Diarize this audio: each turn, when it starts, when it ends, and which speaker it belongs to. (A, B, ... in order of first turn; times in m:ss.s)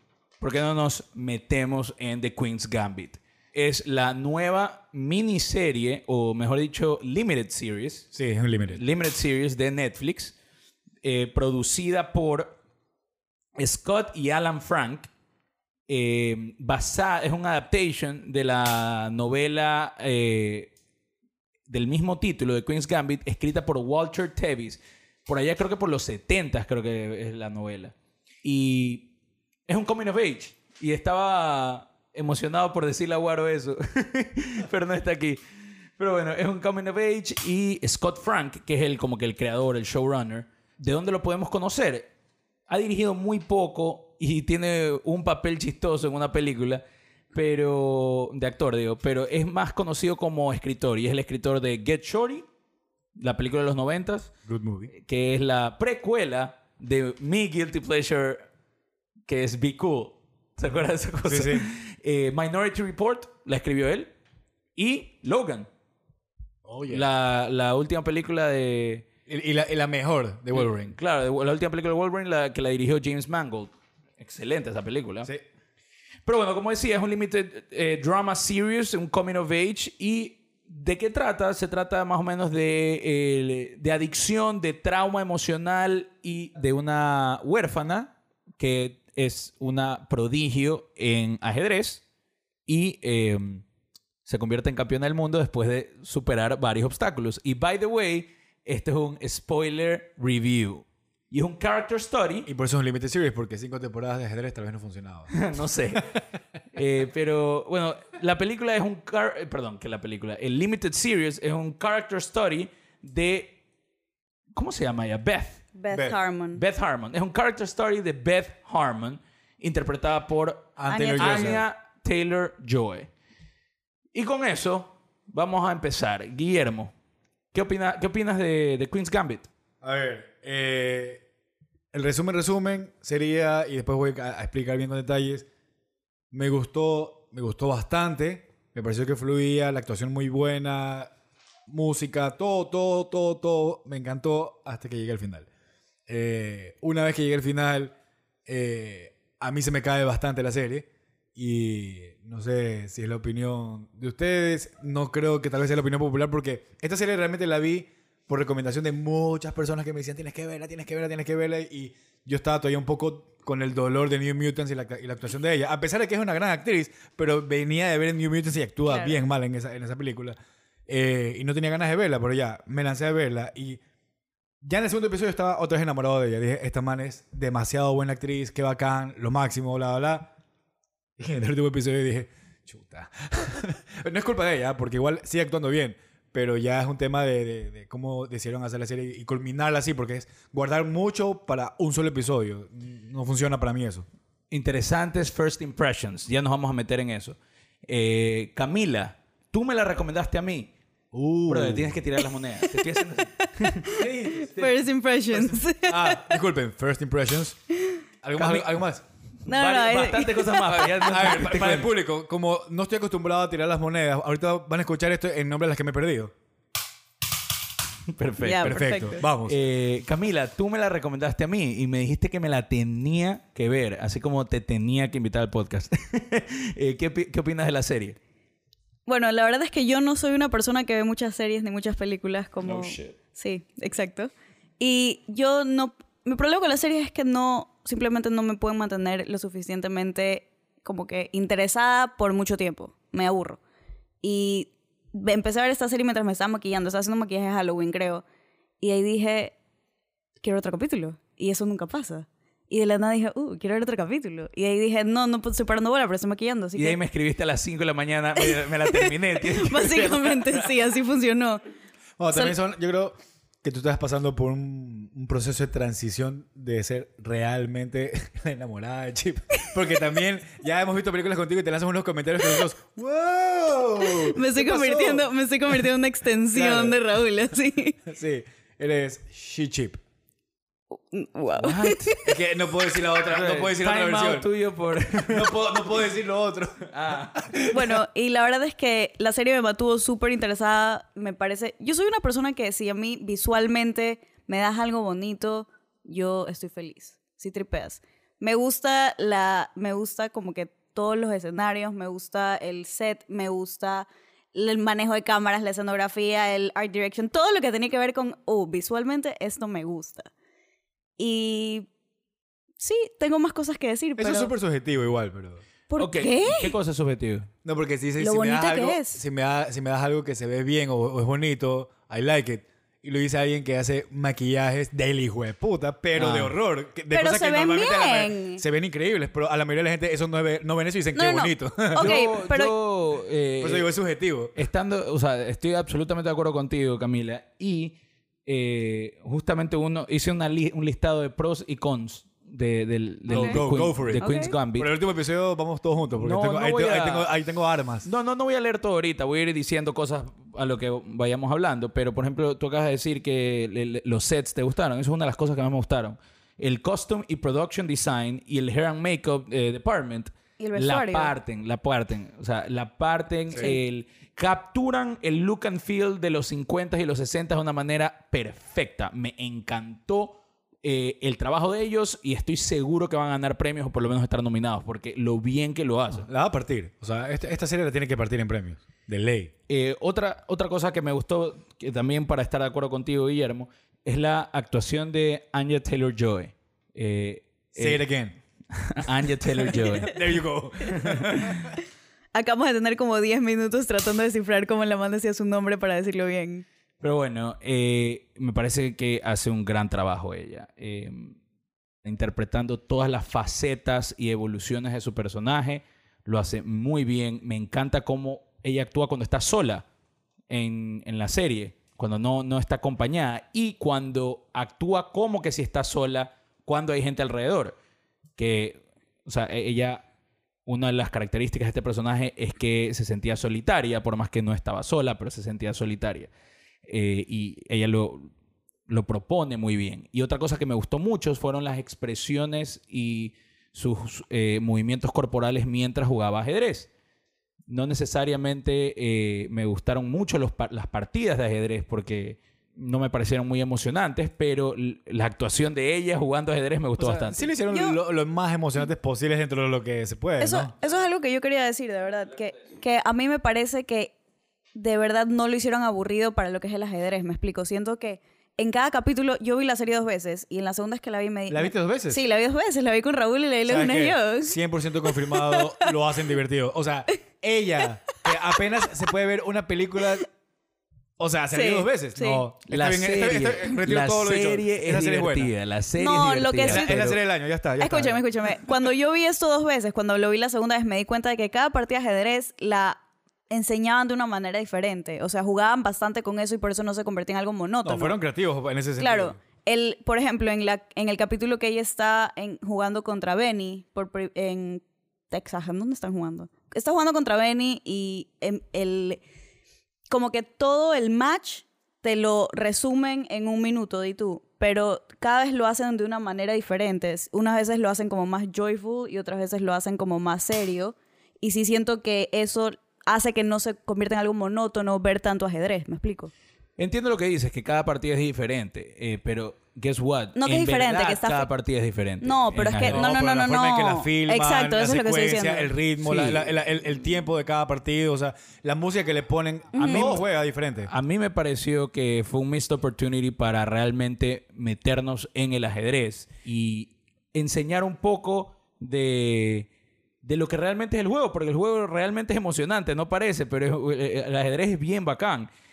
0:00.4-0:08.1 A
0:08.2-0:08.8 B
0:08.7-0:10.3 A
0:11.0-0:12.6 A
0:13.6-0:15.1 A
0:15.9-0:20.7 A
0:21.7-0:29.1 A
0:29.7-0:35.4 A
0:36.0-0:42.1 A
0:42.7-0:46.8 A
0:47.3-0:52.4 A
0:53.2-0:54.3 A
0:54.5-0:54.9 B
0:54.9-0:58.4 A
0:59.3-1:04.1 A
1:01.2-1:01.7 B
1:04.8-1:05.7 A
1:06.6-1:07.1 B
1:06.9-1:09.1 A
1:09.3-1:11.0 B
1:10.5-1:15.3 A
1:16.3-1:32.0 A
1:32.7-1:33.6 A
1:34.3-1:42.5 A
1:42.5-1:45.3 B
1:45.3-1:46.1 A
1:46.7-1:53.5 A
1:54.6-1:55.7 A
1:55.8-1:56.6 C
1:55.9-1:56.2 B
1:56.6-2:03.1 A
2:00.8-2:01.6 B
2:00.9-2:01.6 C
2:04.1-2:06.9 A
2:07.5-2:09.5 A
2:09.8-2:11.2 B
2:11.9-2:15.5 B
2:16.3-2:21.1 B
2:21.7-2:25.5 B
2:26.1-2:27.9 B
2:28.5-2:50.4 B
2:48.9-2:49.2 C
2:50.9-2:53.8 B
2:54.6-3:00.3 B
3:01.2-3:14.1 B
3:14.5-3:20.7 A
3:21.1-3:22.0 B
3:21.5-3:24.0 A
3:23.4-3:26.4 C
3:24.0-3:24.7 B
3:25.3-3:27.6 B
3:28.2-3:29.0 B
3:28.4-3:28.8 A
3:29.5-3:31.0 C
3:29.5-3:31.9 A
3:31.0-3:36.3 B
3:38.1-3:48.2 A
3:38.4-3:39.2 C
3:38.6-3:39.6 B
3:49.1-4:03.6 C
3:52.6-3:53.1 A
4:04.2-4:08.2 C
4:08.8-4:09.6 C
4:10.4-4:17.0 C
4:16.8-4:20.7 A
4:18.4-4:21.6 C
4:22.2-4:35.3 B
4:34.3-4:38.0 C
4:36.5-4:37.0 B
4:38.1-4:40.0 B
4:41.0-4:42.3 C
4:41.6-4:42.2 A
4:42.3-4:44.5 B
4:43.2-4:45.8 A
4:45.2-4:47.9 B
4:46.9-4:47.4 A
4:47.7-5:10.3 C
5:11.2-5:11.9 C
5:12.8-5:14.5 C
5:14.2-5:15.6 B
5:15.9-5:16.7 C
5:16.0-5:17.5 A
5:17.6-5:32.2 B
5:18.2-5:19.2 C
5:26.2-5:26.6 A
5:27.1-5:28.6 C
5:31.2-5:32.8 C
5:32.0-5:33.9 A
5:33.6-5:34.6 B
5:34.6-5:44.9 A
5:43.3-5:48.1 B
5:43.3-5:43.6 C
5:44.2-5:44.6 C
5:46.2-5:47.3 A
5:48.0-6:16.3 A
6:00.6-6:01.3 C
6:16.1-6:19.5 B
6:19.7-6:28.0 A
6:27.8-6:28.4 B
6:28.7-6:30.2 A
6:29.0-6:31.7 B
6:30.9-6:31.7 A
6:32.3-6:36.6 C
6:37.0-6:41.4 A
6:42.0-6:49.8 A
6:50.5-6:57.8 A
6:58.4-7:00.0 A
7:00.7-7:06.3 A
7:06.9-7:08.3 A
7:08.9-7:16.9 A
7:17.7-7:27.5 A
7:27.0-7:30.7 B
7:27.7-7:28.0 C
7:30.4-7:34.1 C
7:34.8-7:45.9 C
7:41.5-7:42.2 B
7:43.7-7:50.3 B
7:51.2-7:55.5 B
7:51.5-7:52.4 C
7:52.7-7:57.2 A
7:56.0-7:57.0 C
7:56.6-7:58.2 B
7:57.8-8:08.2 C
8:07.8-8:09.4 B
8:09.0-8:19.2 C
8:20.1-8:36.3 C
8:36.8-8:43.2 A
8:40.4-8:41.5 C
8:42.2-8:45.7 C
8:42.8-8:50.9 B
8:46.0-8:46.5 A
8:49.8-8:50.2 C
8:49.8-8:50.2 A
8:50.9-8:59.7 A
9:00.2-9:05.5 A